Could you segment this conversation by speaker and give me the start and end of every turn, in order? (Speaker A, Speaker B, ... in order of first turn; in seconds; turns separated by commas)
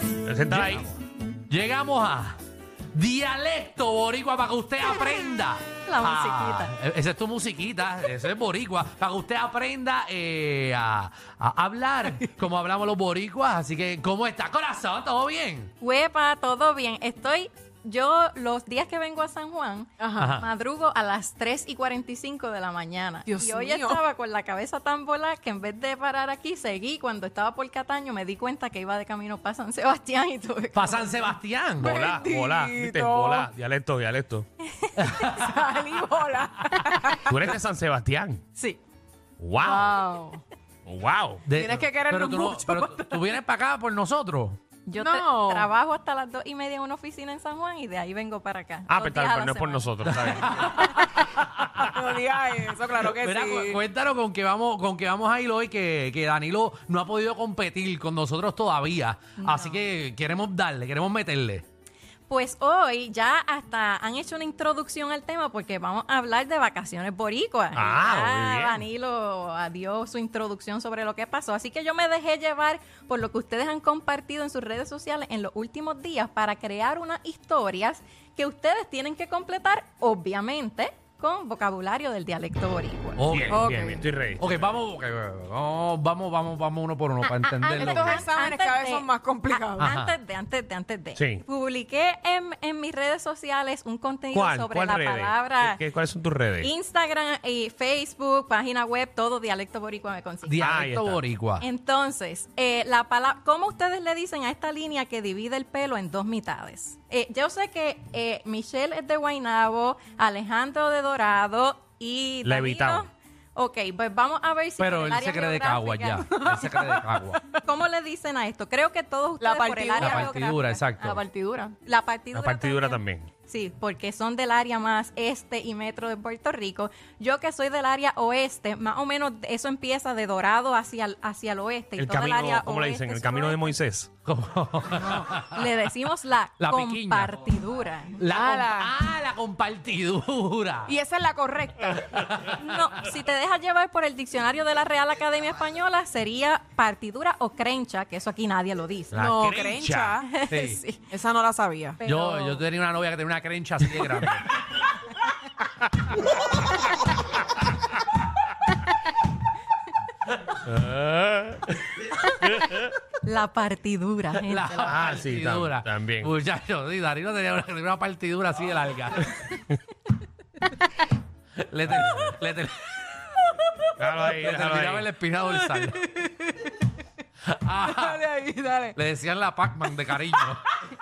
Speaker A: 0.2-0.9, Speaker B: 0.5-0.8, Speaker B: 1.5-2.4, Speaker B: 2.9-15.7, Speaker C: 5.8-6.7, Speaker C: 15.8-31.3, Speaker D: 20.0-20.3, Speaker B: 20.2-20.4, Speaker D: 23.3-24.0, Speaker B: 30.7-32.0, Speaker D: 31.8-33.5, Speaker A: 31.8-34.5, Speaker B: 35.0-35.5, Speaker D: 35.3-37.4, Speaker A: 37.2-38.4, Speaker A: 39.4-40.0, Speaker D: 39.6-40.4, Speaker A: 40.9-41.4, Speaker B: 41.5-44.6, Speaker D: 41.5-43.2, Speaker C: 44.9-49.9, Speaker D: 45.0-45.7, Speaker A: 48.9-50.6, Speaker B: 50.0-51.9, Speaker D: 50.7-53.8, Speaker B: 53.1-61.6, Speaker C: 59.4-59.8, Speaker C: 62.3-83.3, Speaker A: 67.7-68.8, Speaker B: 83.2-83.6, Speaker A: 83.3-84.6, Speaker D: 83.5-84.0, Speaker B: 84.4-88.2, Speaker C: 87.2-95.8, Speaker D: 87.7-89.9, Speaker B: 89.8-90.1, Speaker A: 91.2-91.4, Speaker A: 94.3-96.7, Speaker C: 96.6-100.6, Speaker B: 100.5-101.6, Speaker A: 100.6-101.2, Speaker C: 101.6-116.4, Speaker A: 112.4-113.0, Speaker B: 114.8-117.4, Speaker C: 117.5-120.9, Speaker D: 119.4-120.3, Speaker B: 120.0-121.2, Speaker D: 121.0-121.7, Speaker C: 121.8-133.8, Speaker A: 122.3-123.3, Speaker A: 132.0-134.1, Speaker B: 134.2-135.6, Speaker C: 134.9-138.2, Speaker B: 136.6-137.4, Speaker B: 138.2-141.0, Speaker D: 138.3-138.9, Speaker D: 140.8-142.1, Speaker B: 142.2-142.6, Speaker C: 142.4-149.2, Speaker A: 149.1-150.2, Speaker D: 149.1-150.3, Speaker C: 150.3-150.9, Speaker B: 150.5-150.8, Speaker D: 150.9-152.6, Speaker B: 152.0-154.5, Speaker A: 160.6-161.8, Speaker A: 162.4-162.9, Speaker C: 163.2-165.1, Speaker B: 164.5-169.3, Speaker A: 164.8-166.3, Speaker B: 171.6-173.0, Speaker A: 173.9-175.1, Speaker B: 174.2-176.1, Speaker D: 175.8-176.7, Speaker B: 177.4-178.2, Speaker D: 177.8-178.9, Speaker B: 178.9-180.7